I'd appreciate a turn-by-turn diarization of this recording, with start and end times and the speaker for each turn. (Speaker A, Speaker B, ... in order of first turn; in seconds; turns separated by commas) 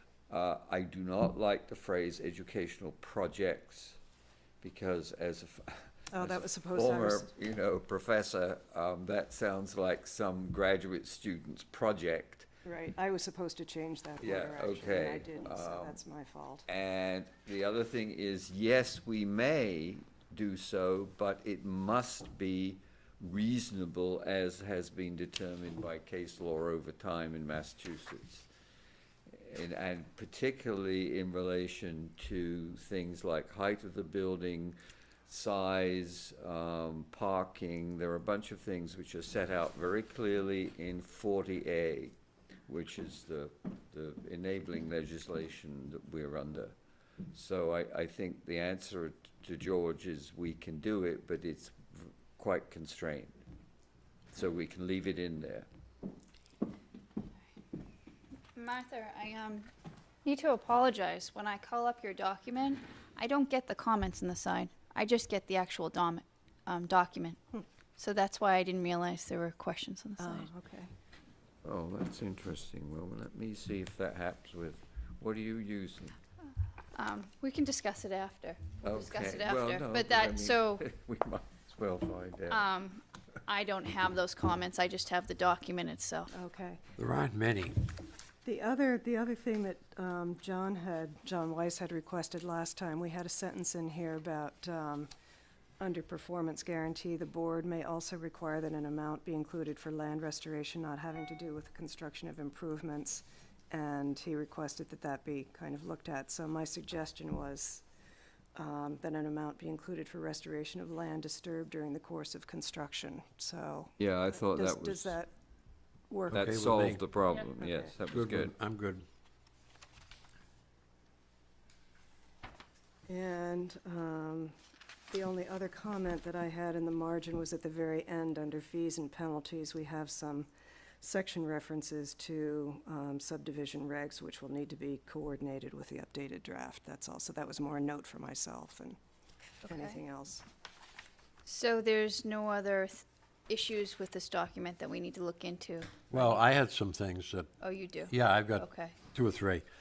Speaker A: 0.3-4.0, Speaker A: 4.6-12.5, Speaker B: 6.1-7.3, Speaker B: 12.6-16.6, Speaker A: 14.2-16.0, Speaker A: 16.7-28.5, Speaker A: 29.3-34.8, Speaker A: 35.3-42.1, Speaker A: 42.7-46.7, Speaker A: 47.3-53.4, Speaker A: 54.3-55.7, Speaker C: 58.5-59.7, Speaker C: 60.2-67.4, Speaker C: 68.0-70.5, Speaker B: 70.2-70.9, Speaker A: 71.6-76.1, Speaker C: 76.9-80.8, Speaker A: 78.8-82.7, Speaker C: 82.5-86.3, Speaker B: 86.3-86.8, Speaker D: 87.0-87.7, Speaker B: 88.4-95.1, Speaker B: 95.8-107.8, Speaker B: 108.5-115.3, Speaker A: 114.0-115.2, Speaker B: 116.1-116.4, Speaker D: 116.3-117.0, Speaker A: 116.3-118.5, Speaker B: 117.6-117.9, Speaker D: 118.1-119.0, Speaker B: 123.1-124.5, Speaker B: 125.1-130.5, Speaker B: 131.0-139.0, Speaker C: 139.6-140.0, Speaker B: 139.7-140.4, Speaker C: 141.4-146.4, Speaker D: 146.1-147.5, Speaker C: 147.6-148.9, Speaker D: 148.1-149.6